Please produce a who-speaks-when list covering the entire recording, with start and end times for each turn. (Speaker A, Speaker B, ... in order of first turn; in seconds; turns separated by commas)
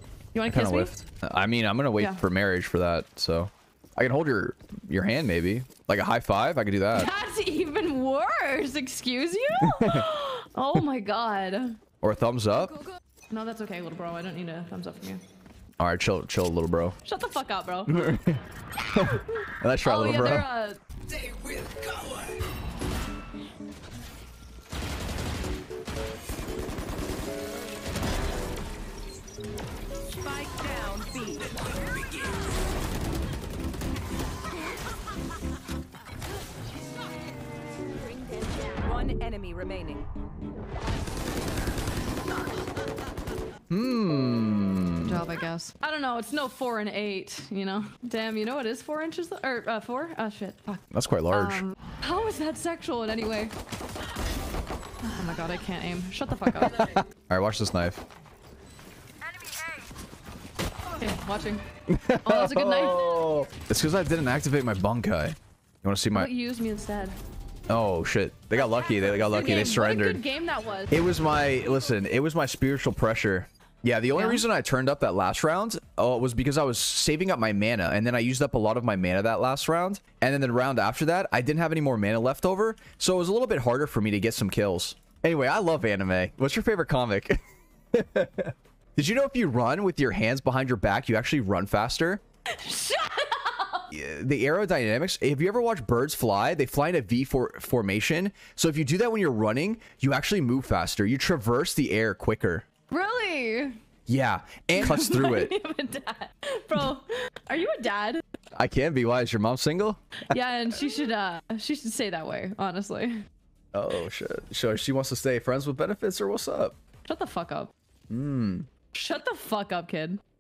Speaker A: 0.3-1.0, Speaker B: 0.5-7.1, Speaker A: 1.9-2.2, Speaker A: 6.9-11.8, Speaker B: 9.6-10.1, Speaker B: 12.0-12.8, Speaker A: 13.3-15.2, Speaker B: 15.8-17.0, Speaker A: 17.0-18.1, Speaker B: 17.9-20.5, Speaker A: 19.8-20.8, Speaker C: 30.2-32.1, Speaker C: 38.3-40.1, Speaker B: 43.7-45.2, Speaker A: 45.0-53.5, Speaker B: 50.9-51.6, Speaker A: 55.0-56.9, Speaker B: 56.6-58.0, Speaker A: 60.9-61.6, Speaker B: 61.9-66.3, Speaker A: 62.2-63.3, Speaker A: 66.1-67.2, Speaker B: 67.7-70.2, Speaker A: 68.5-71.0, Speaker B: 70.9-87.4, Speaker A: 74.1-74.5, Speaker B: 87.9-92.2, Speaker A: 92.5-93.9, Speaker B: 93.9-102.6, Speaker A: 102.9-103.8, Speaker B: 104.1-105.5, Speaker A: 104.8-108.2, Speaker B: 108.5-110.3, Speaker A: 110.3-113.2, Speaker B: 113.7-116.8, Speaker A: 117.0-117.7, Speaker B: 118.1-118.7, Speaker A: 118.9-120.2